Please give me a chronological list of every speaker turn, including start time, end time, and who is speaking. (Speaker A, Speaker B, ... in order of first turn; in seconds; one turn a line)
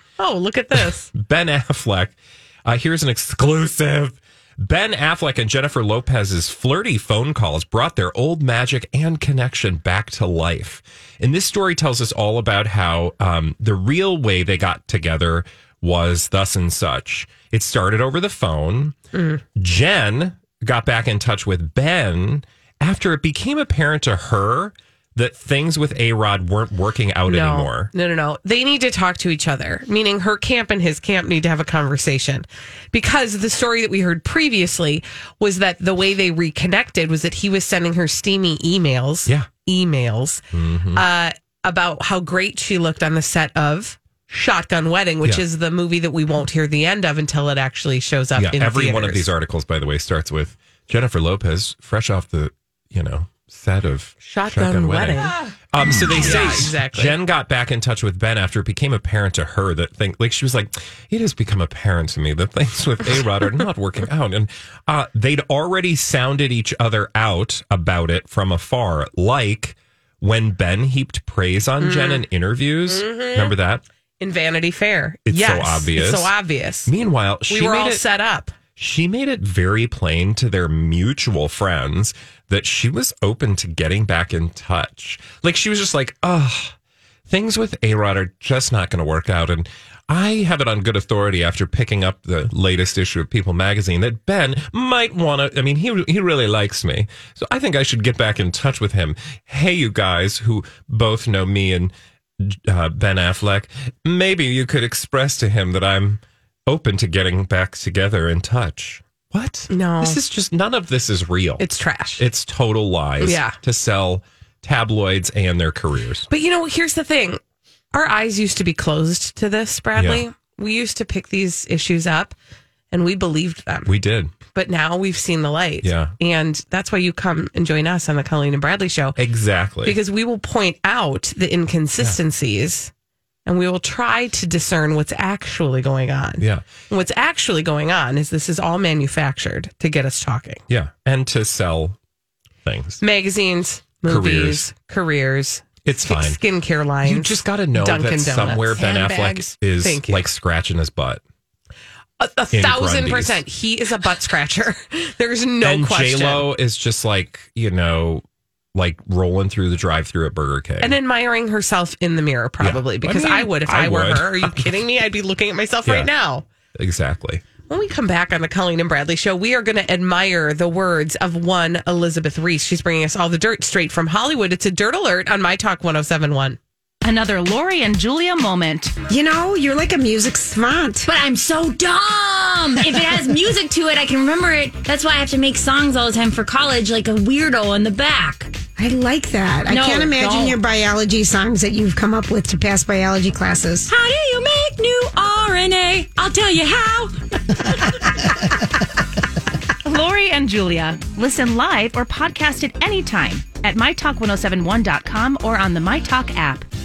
Speaker A: 0.2-1.1
Speaker B: 1.1-18.9
Speaker A: 19.1-19.4
Speaker B: 19.6-27.9
Speaker A: 27.2-40.4
Speaker B: 40.5-41.0
Speaker A: 40.9-49.2
Speaker B: 48.3-73.8
Speaker A: 54.2-57.1
Speaker A: 71.8-72.2
Speaker A: 72.9-73.5
Speaker A: 74.2-76.9
Speaker B: 75.3-76.3
Speaker B: 76.9-78.0
Speaker A: 77.5-78.5
Speaker B: 78.8-86.7
Speaker B: 87.3-111.7
Speaker A: 109.7-110.2
Speaker A: 111.6-112.2
Speaker B: 112.2-116.3
Speaker A: 113.2-113.5
Speaker A: 116.3-117.4
Speaker A: 117.9-122.3
Speaker B: 119.9-120.2
Speaker A: 122.9-123.9
Speaker B: 123.9-124.3
Speaker A: 124.5-129.2
Speaker B: 125.8-126.1
Speaker B: 129.2-130.0
Speaker A: 129.8-132.9
Speaker A: 133.4-140.6
Speaker B: 136.4-136.6
Speaker B: 140.7-142.0
Speaker B: 142.6-143.0
Speaker A: 143.0-150.3
Speaker B: 144.1-144.6
Speaker B: 145.8-146.4
Speaker B: 147.0-151.2
Speaker A: 152.2-156.5
Speaker B: 152.5-153.4
Speaker B: 155.6-158.2
Speaker B: 158.7-161.0
Speaker A: 160.8-166.4
Speaker B: 162.6-164.7
Speaker B: 165.8-166.1
Speaker B: 166.8-167.4
Speaker A: 167.7-176.6
Speaker C: 177.0-178.9
Speaker D: 179.1-181.1
Speaker E: 181.0-188.6
Speaker D: 188.8-193.9
Speaker E: 189.7-190.6
Speaker E: 193.9-197.1
Speaker C: 199.9-206.7